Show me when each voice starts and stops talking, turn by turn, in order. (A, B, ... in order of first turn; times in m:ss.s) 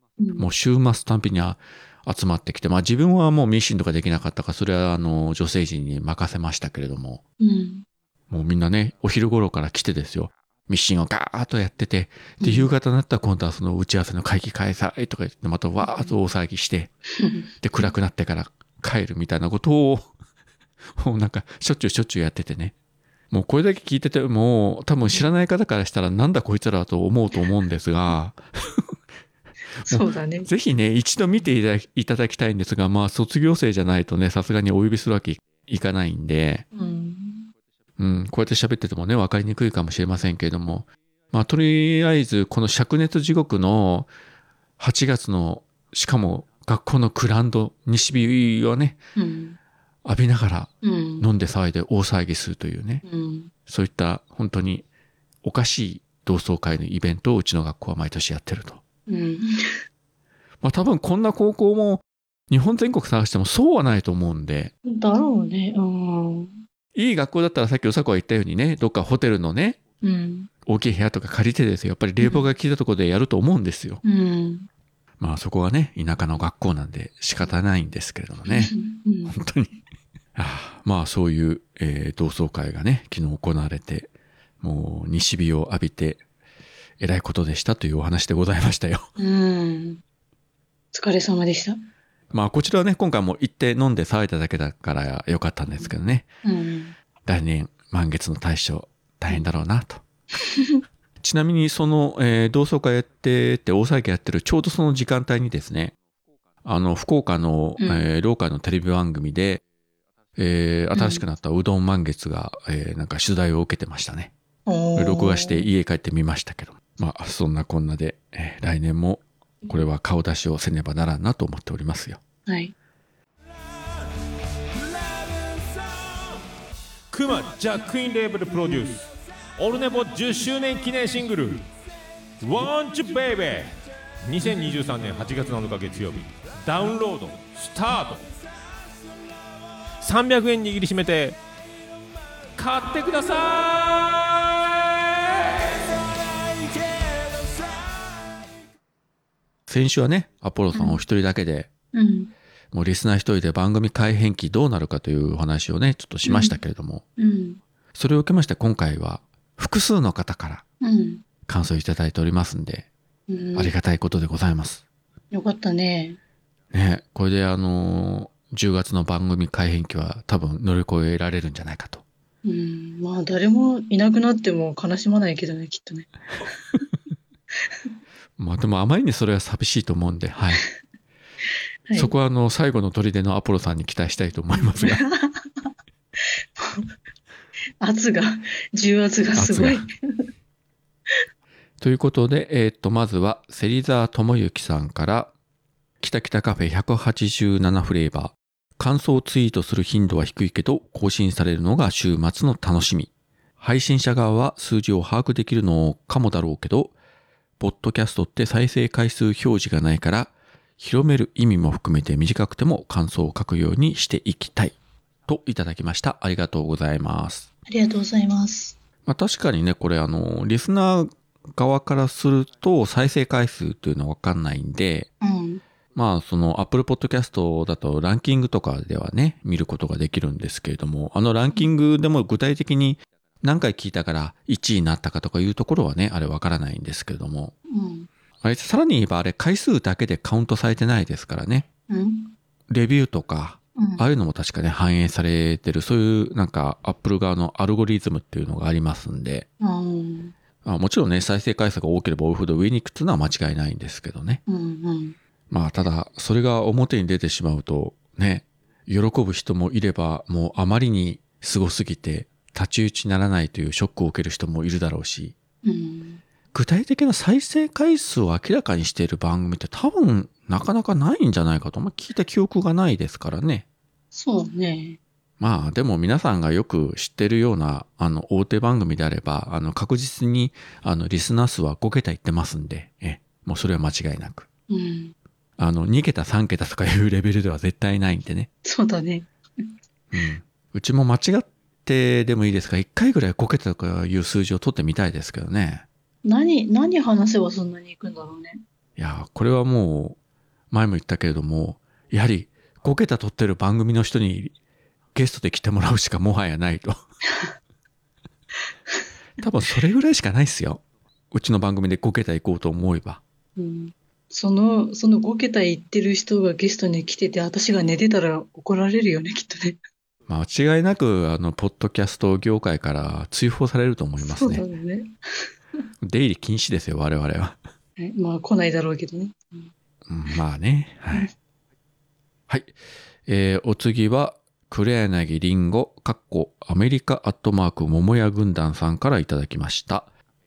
0:00.2-0:00.5 A
0:00.4-0:07.2 B
0:07.4-0:07.8 A
0:08.3-0:16.9 B
0:12.4-0:12.7 A
0:15.8-0:16.1 A
0:17.2-0:17.8 A
0:17.6-0:20.1 B
0:21.0-0:22.7 B
0:23.3-0:28.9 B
0:29.8-0:30.5 A
0:29.8-0:36.6 B
0:36.7-0:37.5 A
0:38.0-0:44.1 B
0:44.8-0:49.0 B
0:49.2-0:49.6 A
0:50.0-0:53.0 B
0:50.8-0:51.2 A
0:53.0-0:53.5 A
0:53.7-0:54.8 B
0:55.4-0:58.8 B
0:59.1-0:59.8 A
1:00.6-1:04.7 B
1:04.8-1:06.6 A
1:06.9-1:09.8 B
1:10.0-1:10.5 A
1:10.6-1:14.0 B
1:12.2-1:12.5 A
1:14.0-1:14.7 A
1:15.2-1:18.7 B
1:18.4-1:19.4 A
1:19.3-1:19.8 B
1:20.4-1:26.2 B
1:27.0-1:29.1 B
1:29.2-1:30.0 A
1:30.9-1:31.8 A
1:32.3-1:36.3 B
1:36.4-1:36.9 A
1:37.2-1:40.0 B
1:40.4-1:40.8 A
1:41.2-1:45.9 B
1:46.6-1:49.6 B
1:47.8-1:48.1 A
1:50.4-1:54.3 B
1:50.9-1:51.2 A
1:54.6-1:55.7 A
1:55.0-2:02.2 B
2:02.4-2:02.7 A
2:07.1-2:11.6 C
2:12.4-2:18.3 C
2:20.0-2:21.4 C
2:22.6-2:25.0 C
2:29.7-2:31.7 B
2:30.7-2:31.0 A
2:31.9-2:32.3 A
2:32.7-2:37.0 B
2:36.2-2:36.6 A
2:37.2-2:37.6 A
2:37.9-2:40.6 B
2:40.8-2:41.2 A
2:41.5-2:42.9 B
2:43.3-2:43.7 A
2:43.5-2:44.8 B
2:45.3-2:46.2 A
2:46.7-2:52.0 B
2:52.4-2:56.1 A
2:58.4-3:00.6 B
3:01.9-3:02.1 A
3:01.9-3:05.0 B
3:04.8-3:05.5 A
3:06.6-3:06.9 A
3:07.8-3:09.9 A
3:09.4-3:09.8 B
3:11.8-3:15.3 B
3:16.0-3:26.9 B
3:27.6-3:34.7 B
3:35.3-3:37.5 B
3:37.7-3:38.8 A
3:39.0-3:45.1 B
3:45.2-3:45.6 A
3:45.9-3:57.5 B
3:57.7-3:58.1 A
3:58.4-4:01.6 B
4:01.9-4:02.3 A
4:02.7-4:09.4 B
4:03.8-4:04.0 A
4:09.6-4:10.3 A
4:10.6-4:14.4 B
4:14.5-4:15.2 A
4:15.5-4:25.3 B
4:25.6-4:26.2 A
4:26.5-4:33.6 B
4:34.1-4:35.0 A
4:35.4-4:44.5 B
4:44.7-4:45.1 A
4:45.6-4:48.5 B
4:48.6-4:49.3 A
4:50.1-4:55.8 B
4:56.2-4:58.6 A
4:59.0-5:00.2 B
5:00.7-5:04.5 B
5:05.1-5:07.0 B
5:09.4-5:13.2 B
5:13.6-5:19.8 A
5:20.3-5:24.6 B
5:24.2-5:25.1 A
5:26.0-5:27.6 B
5:28.0-5:29.7 A
5:30.1-5:31.3 B
5:32.5-5:32.7 B
5:33.2-5:40.1 B